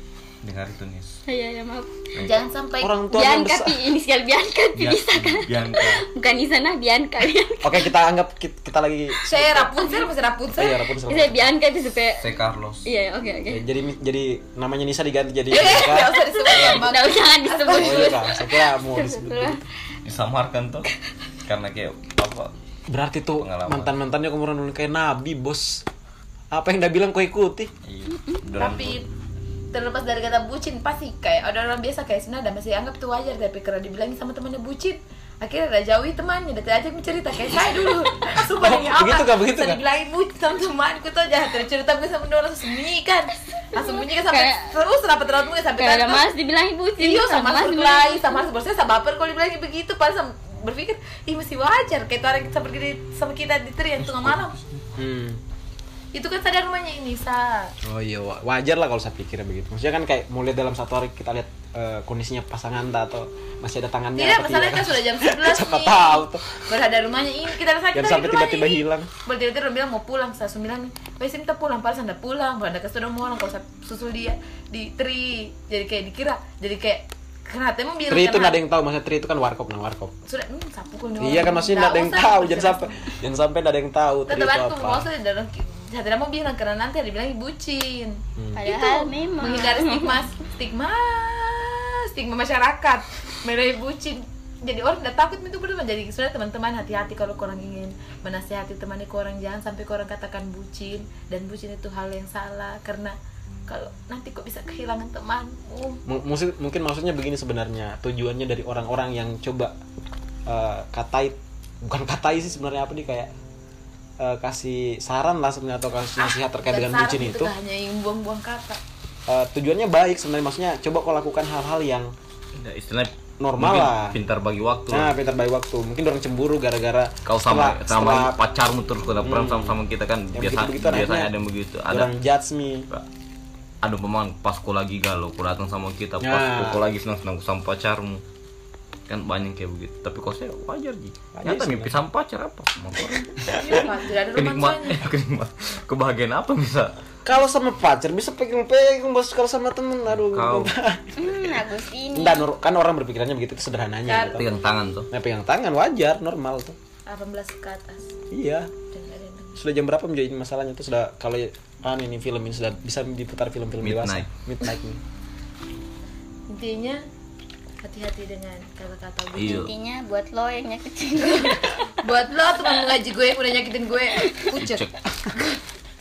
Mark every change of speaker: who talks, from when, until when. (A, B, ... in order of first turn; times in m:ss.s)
0:00.4-0:01.2 A
0:01.3-0:01.9 B
0:02.2-0:02.5 A
0:02.2-0:03.0 C
0:02.8-0:03.8 D
0:03.1-0:07.9 B
0:04.8-0:06.0 A
0:07.6-0:09.7 D
0:09.3-0:10.8 C
0:10.5-0:11.5 D
0:11.1-0:12.3 B
0:12.2-0:12.9 A
0:12.8-0:13.6 B
0:13.5-0:16.2 D
0:15.5-0:18.2 C
0:16.1-0:19.6 B
0:17.8-0:19.7 D
0:20.0-0:20.9 A
0:21.4-0:22.5 A
0:22.9-0:25.8 D
0:23.4-0:24.0 A
0:26.5-0:27.7 D
0:27.8-0:29.0 A
0:28.1-0:28.4 B
0:28.6-0:29.1 C
0:29.7-0:46.3 C
0:38.5-0:39.8 D
0:43.7-0:44.7 B
0:45.8-0:48.4 B
0:47.0-0:54.6 C
0:54.0-0:54.9 A
0:55.0-0:55.4 D
0:56.1-0:57.8 C
0:57.8-1:06.7 D
1:04.2-1:18.6 C
1:07.9-1:09.1 D
1:18.1-1:20.1 D
1:20.3-1:23.1 C
1:21.2-1:25.1 D
1:24.3-1:46.0 C
1:28.4-1:28.6 D
1:28.6-1:30.2 B
1:46.1-1:49.8 D
1:50.5-1:53.3 D
1:54.2-1:57.5 D
1:56.2-1:58.8 C
1:59.3-2:02.1 D
2:02.6-2:05.1 A
2:03.4-2:04.2 D
2:04.9-2:08.4 D
2:07.2-2:12.1 A
2:09.2-2:09.8 D
2:10.3-2:11.3 D
2:11.9-2:12.9 D
2:13.8-2:18.2 A
2:16.2-2:16.8 D
2:19.1-2:26.9 A
2:21.4-2:22.0 D
2:23.5-2:25.0 C
2:27.2-2:31.3 D
2:30.1-2:30.7 A
2:31.2-2:32.5 B
2:32.2-2:34.5 D
2:34.1-2:34.4 C
2:34.3-2:35.1 A
2:35.1-2:36.8 D
2:37.1-2:38.1 C
2:38.3-2:38.7 D
2:38.9-2:39.6 C
2:39.6-2:45.0 D
2:43.8-2:44.3 A
2:46.5-2:47.0 C
2:47.8-2:49.6 C
2:49.3-2:49.7 A
2:49.4-2:51.8 B
2:51.3-2:55.5 C
2:54.5-2:55.0 A